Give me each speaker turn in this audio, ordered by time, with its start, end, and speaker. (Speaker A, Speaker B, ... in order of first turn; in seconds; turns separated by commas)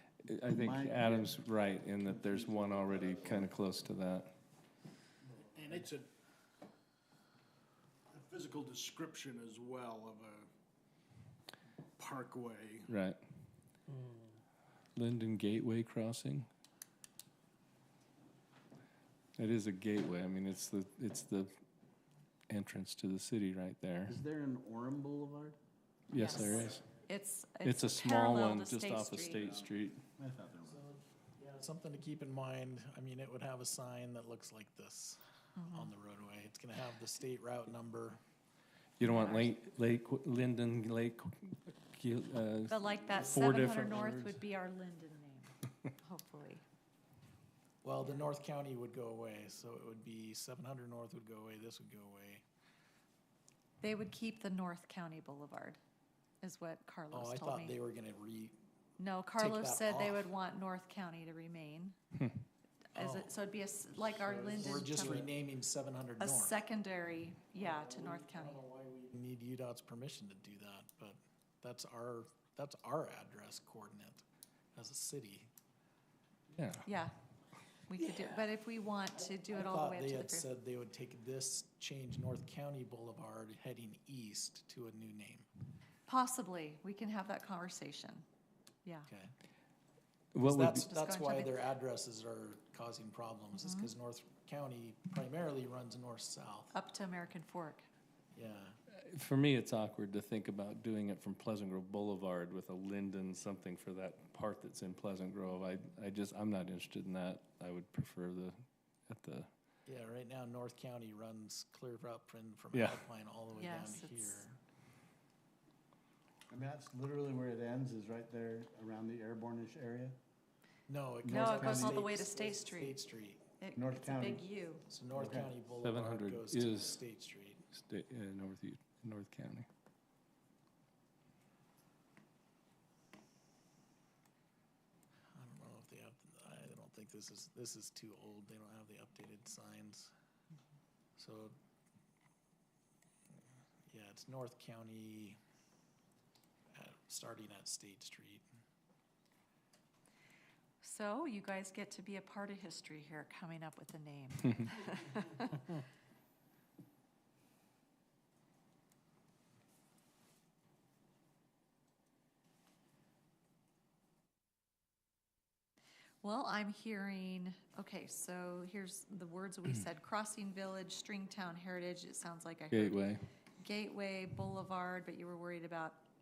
Speaker A: 0.2-4.3, Speaker B: 0.4-1.4, Speaker B: 2.0-3.5, Speaker C: 5.5-6.1, Speaker C: 8.1-10.5, Speaker C: 12.0-12.9, Speaker A: 12.9-13.2, Speaker A: 14.9-16.5, Speaker A: 19.4-21.5, Speaker A: 22.5-24.2, Speaker B: 24.1-25.6, Speaker A: 26.1-26.8, Speaker D: 26.1-29.5, Speaker A: 27.6-30.0, Speaker B: 30.2-30.8, Speaker E: 30.7-38.2, Speaker D: 35.6-35.9, Speaker A: 39.0-44.3, Speaker D: 39.0-39.5, Speaker D: 42.7-46.6, Speaker E: 47.8-52.4, Speaker D: 53.8-55.8, Speaker D: 56.4-57.8, Speaker E: 57.1-58.5, Speaker D: 59.0-62.0, Speaker E: 59.3-60.3, Speaker D: 62.9-65.3, Speaker E: 62.9-63.3, Speaker E: 64.2-66.6, Speaker D: 66.2-68.6, Speaker E: 67.6-74.2, Speaker E: 74.7-75.5, Speaker A: 76.5-76.8, Speaker D: 76.8-77.1, Speaker D: 77.9-80.5, Speaker E: 79.3-85.5, Speaker D: 86.1-88.2, Speaker E: 89.1-89.3, Speaker A: 90.3-90.9, Speaker E: 90.4-96.7, Speaker D: 90.7-91.7, Speaker D: 93.6-93.9, Speaker D: 96.7-97.9, Speaker E: 98.3-98.8, Speaker A: 98.9-108.5, Speaker A: 109.1-109.5, Speaker E: 109.8-114.6, Speaker A: 112.7-113.0, Speaker D: 113.6-114.4, Speaker B: 116.5-120.2, Speaker E: 120.9-123.5, Speaker B: 121.2-122.1, Speaker D: 121.3-123.0, Speaker D: 123.6-124.9, Speaker B: 123.7-124.5, Speaker E: 124.9-127.6, Speaker B: 125.1-125.5, Speaker A: 125.8-127.0, Speaker A: 127.7-129.7, Speaker E: 135.3-140.1, Speaker E: 141.2-141.6, Speaker E: 143.9-145.4, Speaker E: 146.7-148.4, Speaker D: 150.8-155.7, Speaker D: 166.2-173.1, Speaker A: 172.7-173.2, Speaker D: 173.6-176.0